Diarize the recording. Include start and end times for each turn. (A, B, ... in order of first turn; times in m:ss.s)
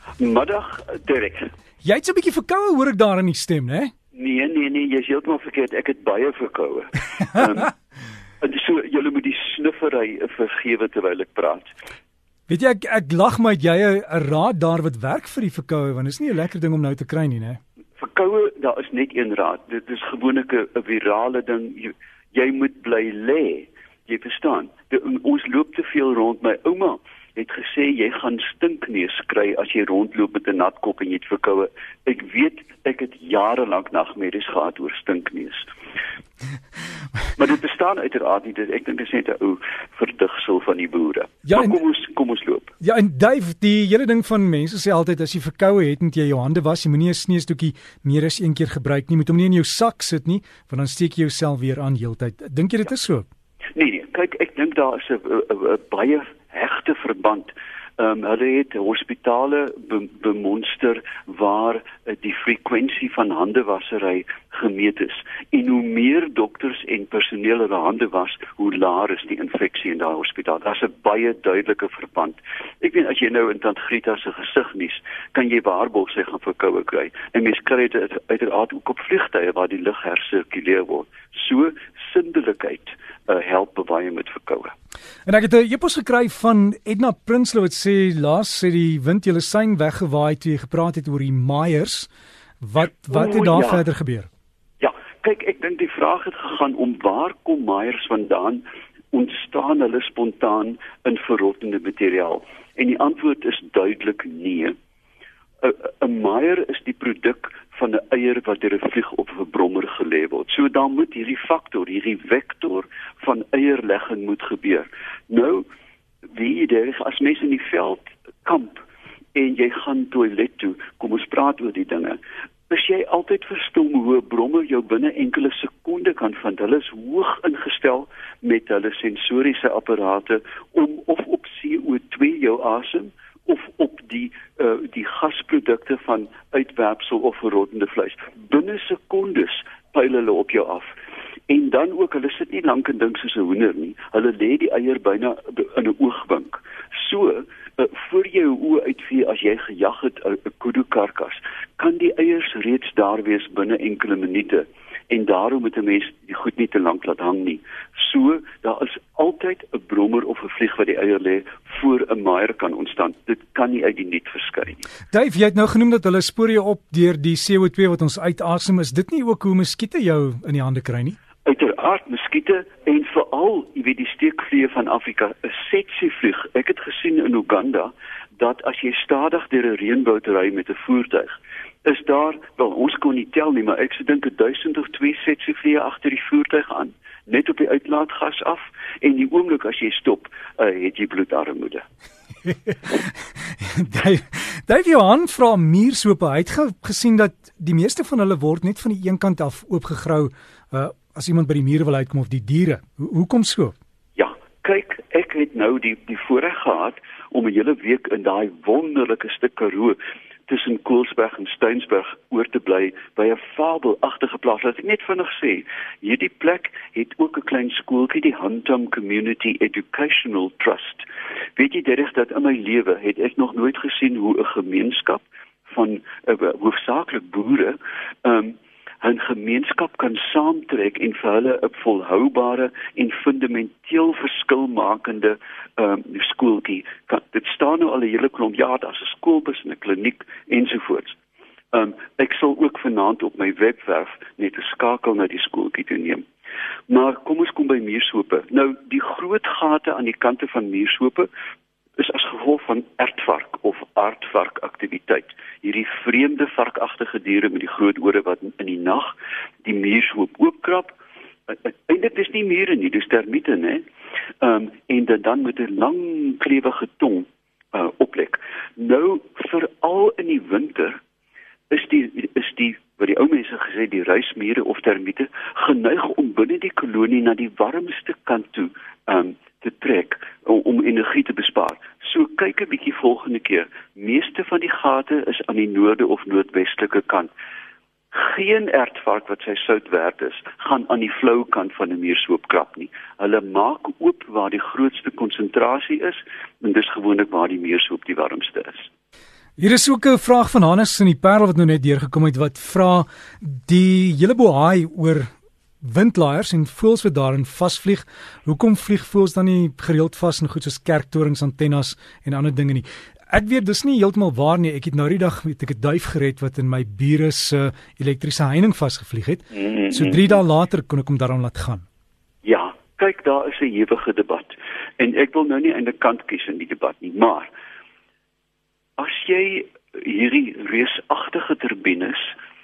0:00.2-0:01.5 A
0:01.8-0:03.9 B
0:04.1-0:07.7 A
0:08.4-0:11.7 A
0:12.5-0:17.6 B
0:18.0-0:35.7 A
0:37.4-0:42.7 A
0:41.4-0:41.8 B
0:42.8-0:53.3 B
0:53.7-1:24.8 A
1:25.2-1:32.1 B
1:32.6-1:34.3 B
1:33.1-1:33.8 A
1:34.8-1:44.7 A
1:45.6-1:55.6 A
1:56.3-2:02.2 A
2:02.7-2:20.9 A
2:21.5-2:44.8 A
2:45.1-2:51.2 B
2:51.4-3:11.8 A
3:12.4-3:23.7 B
3:24.2-3:30.0 A
3:30.5-4:01.2 A
4:01.7-4:06.2 A
4:06.9-4:11.3 A
4:12.0-4:21.0 A
4:21.5-4:23.8 A
4:24.4-4:31.0 A
4:31.7-4:47.3 A
4:48.1-4:58.9 A
4:59.6-5:05.3 B
5:05.8-5:21.8 B
5:22.4-5:27.5 A
5:29.0-5:32.3 A